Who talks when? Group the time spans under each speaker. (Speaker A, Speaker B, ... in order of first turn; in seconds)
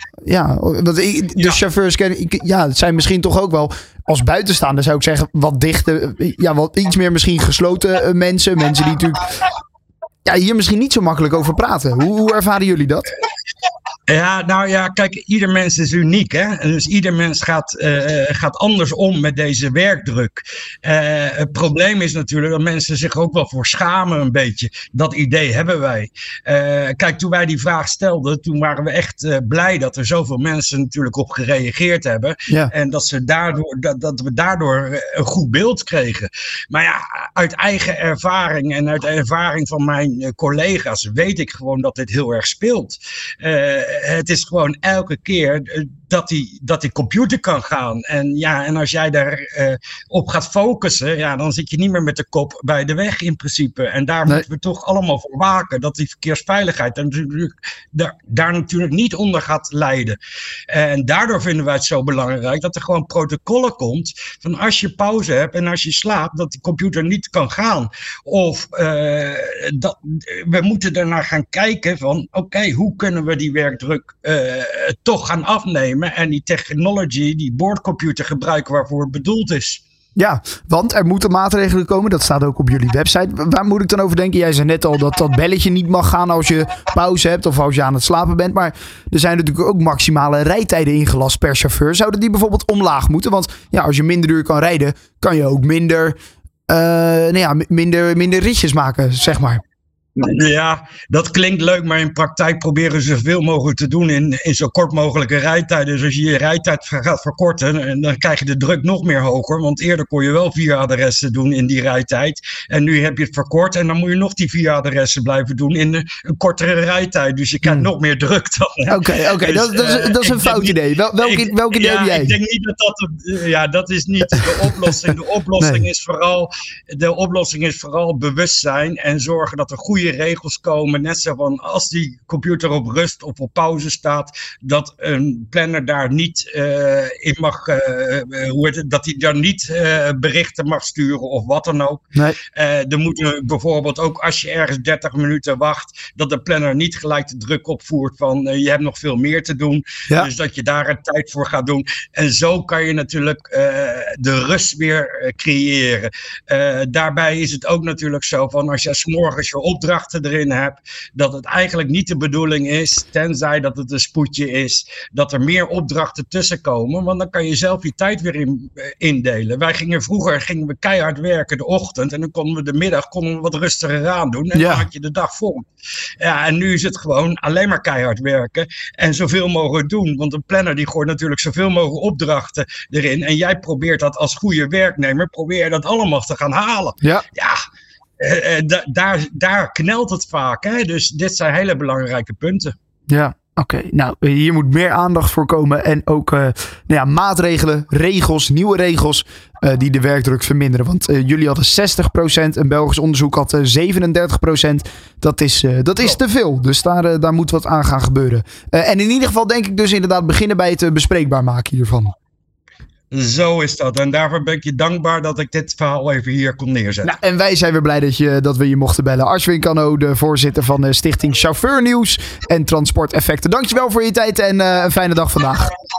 Speaker A: 0.2-9.3, 10.2-13.1, 80.2-96.2, 96.7-99.6, 118.9-122.4, 125.6-125.8, 174.5-174.8, 193.1-212.1, 217.0-225.7
Speaker B: 1.3-1.6, 14.1-60.2, 60.7-79.8, 100.2-175.7, 176.2-187.6, 188.2-192.7, 213.1-217.2